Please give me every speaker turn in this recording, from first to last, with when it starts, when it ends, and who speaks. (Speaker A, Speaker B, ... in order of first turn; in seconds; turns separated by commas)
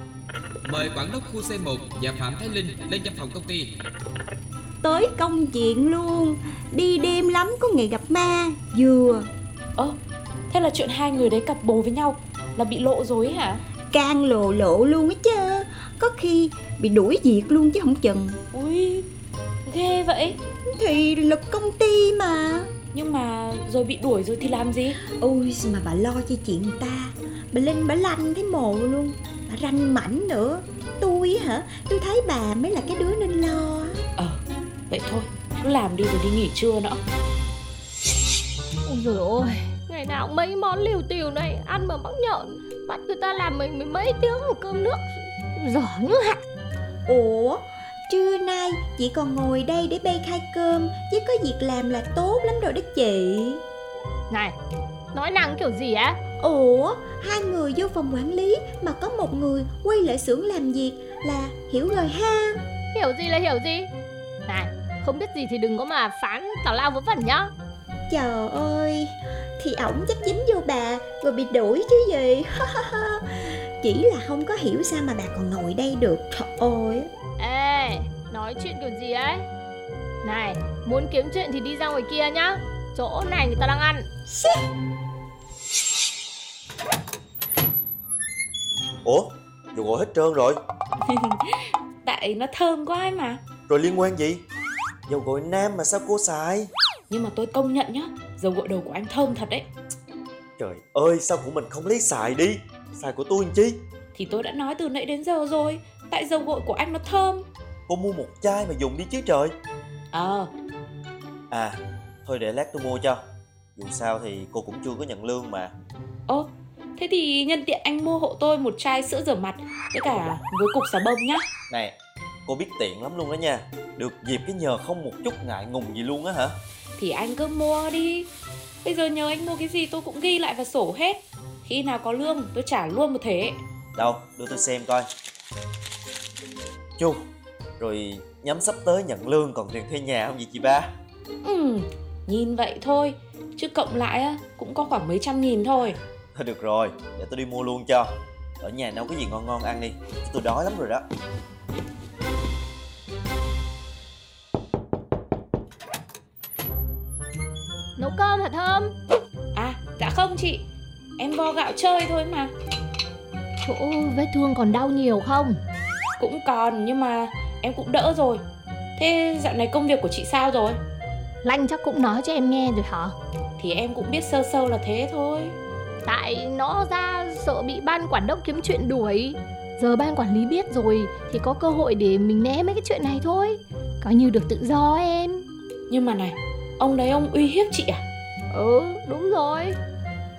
Speaker A: 0.7-3.7, Speaker B: 4.8-9.3, Speaker C: 10.5-13.6, Speaker B: 13.9-18.4, Speaker C: 18.5-19.1, Speaker C: 19.6-20.4, Speaker B: 20.7-22.7, Speaker C: 22.9-25.0, Speaker B: 25.2-34.0, Speaker C: 34.2-37.0, Speaker D: 38.8-46.4, Speaker B: 47.1-53.6, Speaker D: 54.3-54.5, Speaker D: 55.1-56.2, Speaker B: 56.4-62.6, Speaker D: 62.9-63.9, Speaker D: 64.5-67.5, Speaker B: 68.1-73.2, Speaker B: 73.8-77.1, Speaker D: 77.4-79.4, Speaker D: 80.2-84.1, Speaker E: 89.0-90.6, Speaker C: 91.0-93.4, Speaker E: 93.7-94.4, Speaker E: 95.1-96.7, Speaker C: 97.1-99.7, Speaker E: 100.6-103.8, Speaker C: 104.1-107.5, Speaker E: 107.9-109.5, Speaker C: 110.1-110.5, Speaker E: 111.5-113.2, Speaker E: 113.8-115.7, Speaker C: 116.3-121.5, Speaker E: 121.7-126.5, Speaker C: 127.0-128.3, Speaker C: 128.8-133.6, Speaker E: 133.9-135.1, Speaker E: 137.8-140.9, Speaker C: 141.4-146.0, Speaker E: 146.3-148.1, Speaker E: 148.6-151.0, Speaker D: 158.0-158.9, Speaker C: 159.5-160.6, Speaker C: 161.2-162.5, Speaker D: 163.6-165.6, Speaker C: 166.2-168.4, Speaker C: 169.0-170.8, Speaker D: 171.4-173.2, Speaker C: 173.6-175.6, Speaker D: 176.0-185.4, Speaker C: 185.9-188.0, Speaker D: 188.5-189.8